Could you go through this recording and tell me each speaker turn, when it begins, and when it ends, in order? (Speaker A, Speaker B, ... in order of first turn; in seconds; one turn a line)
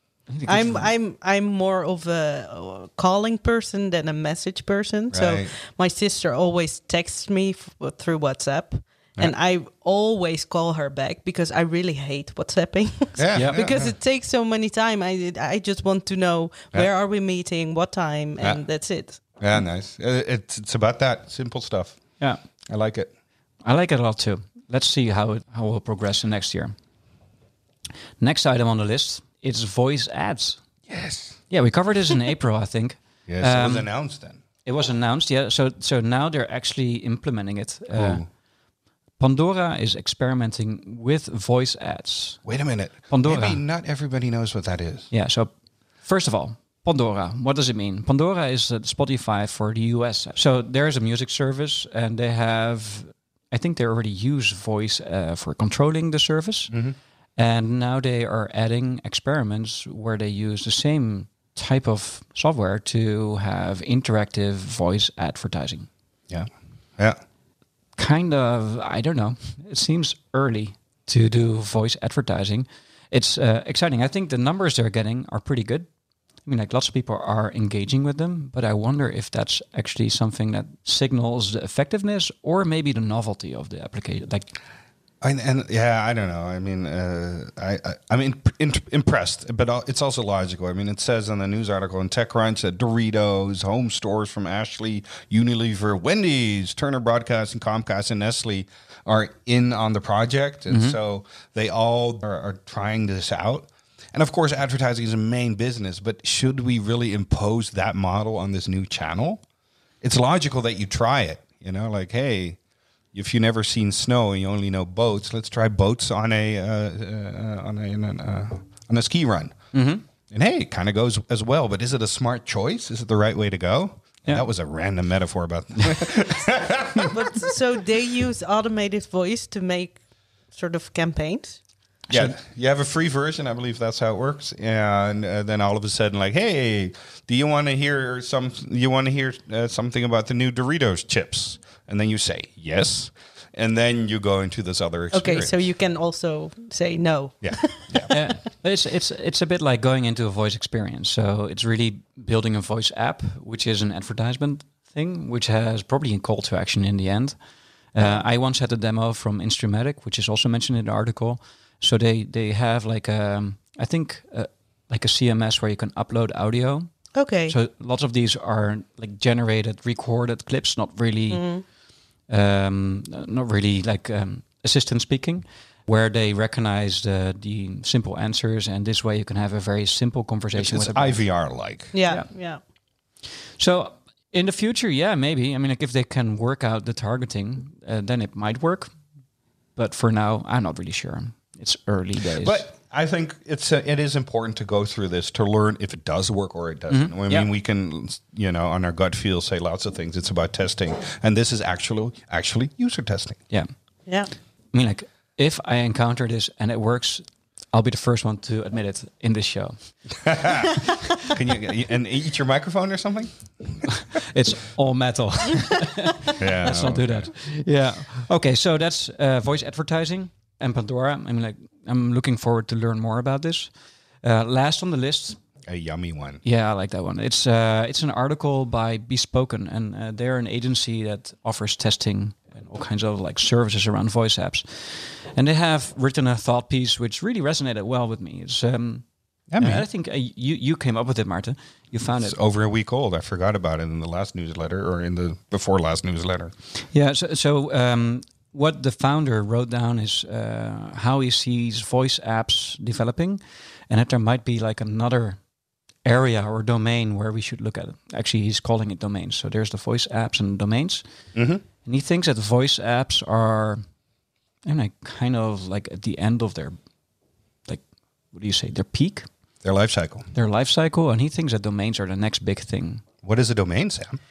Speaker A: 0.3-0.9
Speaker B: 0.5-19.2
Speaker C: 5.1-5.5
Speaker C: 13.2-13.9
Speaker A: 13.3-13.7
Speaker C: 19.4-22.0
Speaker C: 22.7-23.1
Speaker A: 23.6-26.7
Speaker A: 28.2-30.6
Speaker C: 30.9-31.4
Speaker A: 31.5-33.9
Speaker C: 33.3-34.4
Speaker A: 34.6-38.2
Speaker C: 37.9-38.3
Speaker A: 39.2-42.4
Speaker C: 42.4-45.1
Speaker A: 43.1-43.6
Speaker A: 45.1-56.7
Speaker C: 56.7-57.0
Speaker A: 57.4-65.9
Speaker C: 66.3-67.2
Speaker A: 68.0-75.9
Speaker A: 76.4-84.5
Speaker C: 85.2-109.4
Speaker A: 100.7-101.0
Speaker C: 110.0-112.6
Speaker C: 113.1-119.6
Speaker A: 119.7-120.0
Speaker C: 120.3-127.1
Speaker B: 127.1-131.6
Speaker A: 132.1-132.3
Speaker C: 132.1-145.7
Speaker B: 145.1-148.3
Speaker C: 147.4-148.1
Speaker A: 148.1-157.4
Speaker A: 157.9-171.6
Speaker B: 167.1-167.6
Speaker B: 171.3-171.6
Speaker A: 172.3-181.3
Speaker C: 180.6-181.9
Speaker B: 181.9-182.6
Speaker A: 183.6-188.9
Speaker A: 189.8-192.6
Speaker C: 192.4-203.4
Speaker A: 196.9-197.5
Speaker A: 204.7-210.3
Speaker C: 210.2-210.8
Speaker C: 211.3-213.9
Speaker A: 213.9-223.7
Speaker C: 216.4-217.3
Speaker A: 224.2-225.4
Speaker C: 225.7-226.4
Speaker A: 226.4-239.1
Speaker C: 239.5-239.8
Speaker A: 239.6-242.3
Speaker C: 242.1-246.5
Speaker A: 246.9-255.4
Speaker A: 256.0-261.0
Speaker C: 261.3-261.6
Speaker A: 261.8-263.8
Speaker A: 264.6-266.8
Speaker A: 268.3-269.3
Speaker C: 269.6-270.2
Speaker A: 270.3-273.0
Speaker C: 273.2-274.2